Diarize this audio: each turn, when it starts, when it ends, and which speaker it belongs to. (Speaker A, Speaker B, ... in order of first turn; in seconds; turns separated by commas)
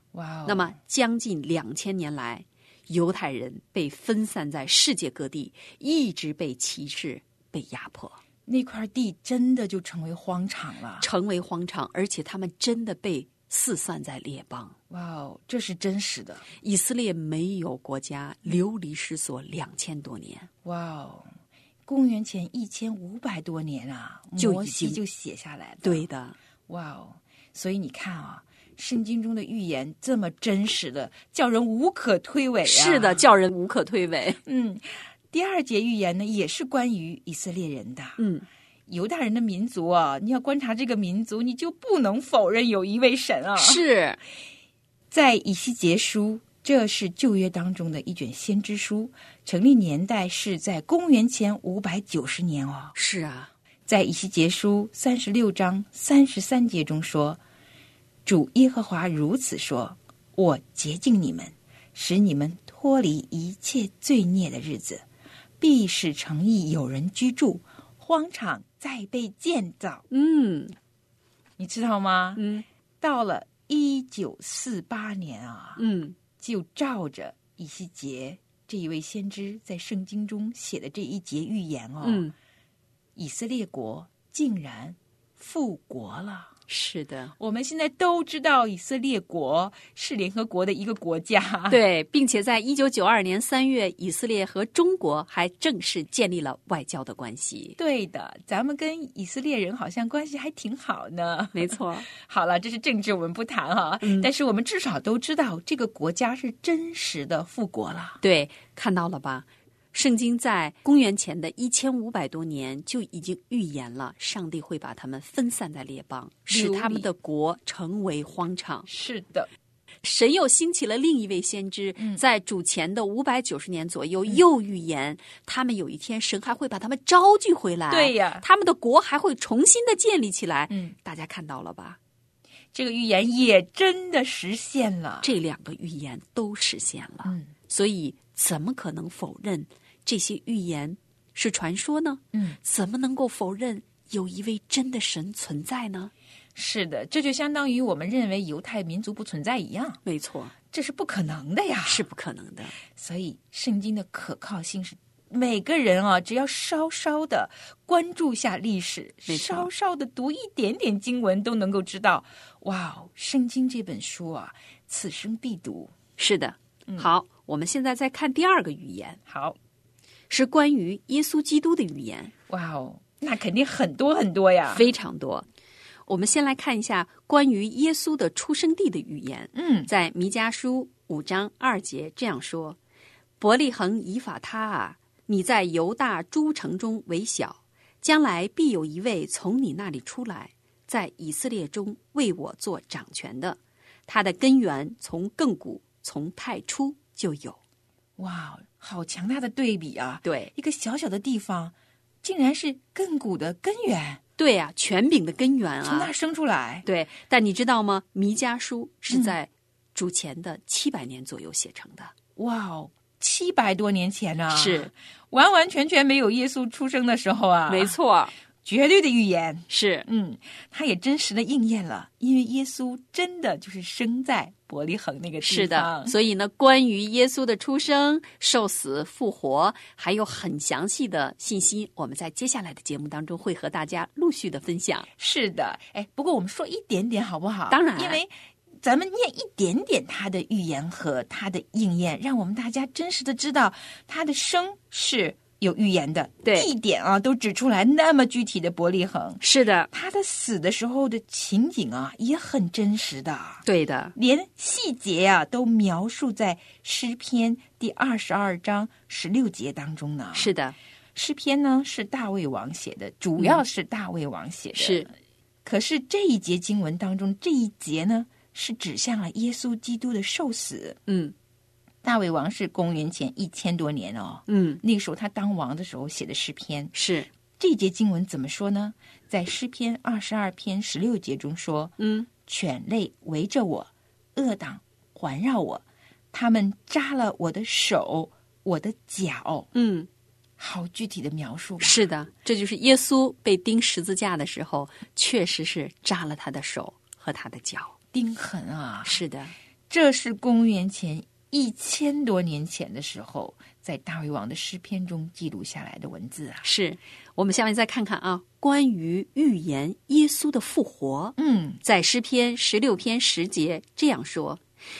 Speaker A: 0.1-0.8, Speaker B: 0.5-8.2, Speaker A: 8.4-11.1, Speaker B: 11.0-14.7, Speaker A: 14.9-16.5, Speaker B: 16.6-20.5, Speaker A: 20.6-21.3, Speaker A: 21.9-26.0, Speaker B: 24.4-25.0, Speaker B: 25.8-26.4, Speaker A: 26.7-33.2, Speaker B: 32.6-34.4, Speaker A: 34.4-38.2, Speaker B: 38.2-38.5, Speaker A: 38.9-43.8, Speaker B: 43.6-44.2, Speaker A: 45.1-52.9, Speaker B: 52.9-53.5, Speaker A: 53.9-57.4, Speaker A: 58.2-65.0, Speaker A: 65.6-70.0, Speaker B: 70.1-70.7, Speaker A: 71.6-72.5, Speaker B: 72.4-72.6, Speaker A: 73.0-75.8, Speaker B: 75.8-76.2, Speaker A: 76.4-82.3, Speaker B: 82.0-82.3, Speaker A: 83.2-86.5, Speaker B: 86.7-87.3, Speaker A: 87.4-91.8, Speaker B: 91.7-97.8, Speaker A: 97.8-108.2, Speaker B: 101.5-102.1, Speaker B: 104.0-104.3, Speaker B: 108.2-118.9, Speaker A: 116.5-117.0, Speaker A: 118.9-119.5, Speaker B: 120.0-132.0, Speaker A: 127.9-128.4, Speaker A: 132.7-135.3, Speaker B: 135.2-146.1, Speaker A: 146.5-150.0, Speaker B: 150.1-150.5, Speaker A: 150.7-152.1, Speaker B: 151.8-152.8, Speaker A: 152.9-165.9, Speaker B: 159.2-159.7, Speaker B: 166.2-169.2, Speaker A: 169.3-169.6, Speaker B: 170.3-172.3, Speaker A: 172.5-174.9, Speaker B: 174.7-175.4, Speaker B: 176.1-182.8, Speaker A: 179.5-179.9, Speaker B: 183.4-197.6, Speaker A: 198.2-204.2, Speaker B: 200.2-200.5, Speaker B: 204.4-206.1, Speaker A: 205.8-206.8, Speaker B: 206.8-212.1, Speaker A: 209.1-209.3, Speaker A: 212.3-218.0, Speaker B: 214.5-214.9, Speaker B: 217.7-218.3, Speaker A: 218.6-226.1, Speaker B: 219.7-220.1, Speaker B: 225.4-235.1, Speaker A: 235.2-238.3, Speaker B: 237.7-238.2, Speaker A: 238.8-260.5, Speaker B: 246.4-246.7, Speaker B: 249.4-249.9, Speaker B: 253.7-254.1, Speaker B: 260.3-260.8, Speaker A: 261.1-265.1, Speaker B: 264.8-265.1, Speaker A: 265.6-271.0, Speaker B: 271.1-271.3, Speaker A: 272.0-276.9, Speaker B: 274.5-274.8, Speaker B: 276.9-277.3, Speaker A: 277.6-289.7, Speaker B: 282.0-282.3, Speaker B: 289.7-290.1, Speaker A: 290.6-292.1, Speaker B: 291.8-297.9, Speaker A: 298.1-299.2, Speaker B: 299.0-299.5, Speaker A: 299.9-306.6, Speaker B: 306.6-314.6, Speaker A: 311.4-311.8